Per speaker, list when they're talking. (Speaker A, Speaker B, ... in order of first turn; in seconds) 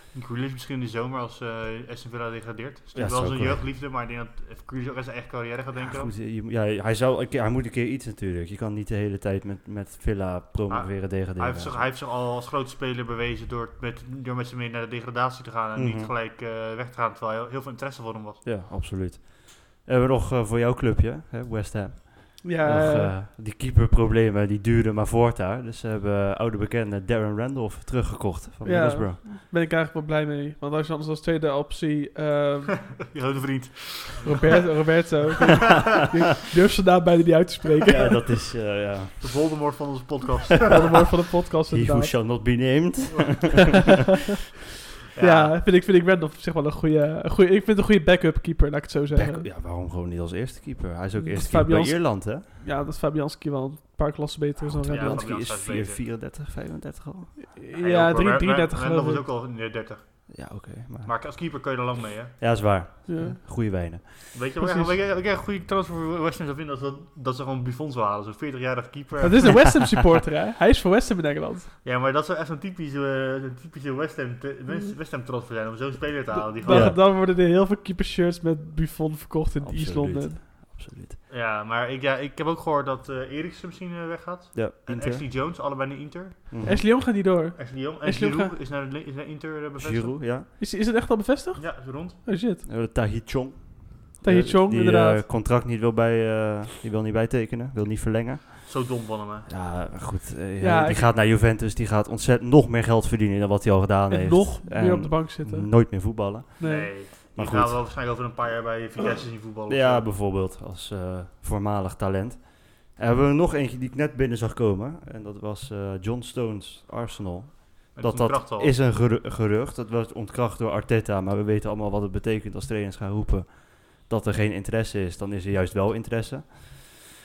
Speaker A: 0.1-6.1, 10.7-18.4, 33.0-34.4, 39.2-41.0, 43.1-43.8, 45.1-45.6, 54.9-56.0, 57.8-62.4, 64.3-69.8, 71.8-77.0, 81.3-86.8, 87.5-90.2, 91.6-92.3, 98.7-99.5, 106.6-110.1, 117.9-118.8
Speaker B: 2.9-3.6, 5.8-11.8, 15.7-16.1, 18.4-29.2, 37.9-39.8, 41.7-43.9, 49.1-52.5, 54.6-57.5, 60.3-61.1, 62.4-64.4, 76.7-77.0, 79.6-81.2, 84.5-85.3, 86.5-86.8, 89.8-90.5, 92.6-107.8, 109.7-127.0
Speaker C: 22.4-23.1, 28.6-32.9, 34.2-38.2, 40.7-42.2, 45.2-49.5, 51.1-55.3, 57.5-59.2, 63.1-63.4, 64.6-64.9, 69.2-71.7, 76.6-80.4, 86.6-88.5, 90.6-92.6, 94.2-95.2, 100.6-101.1, 104.1-106.9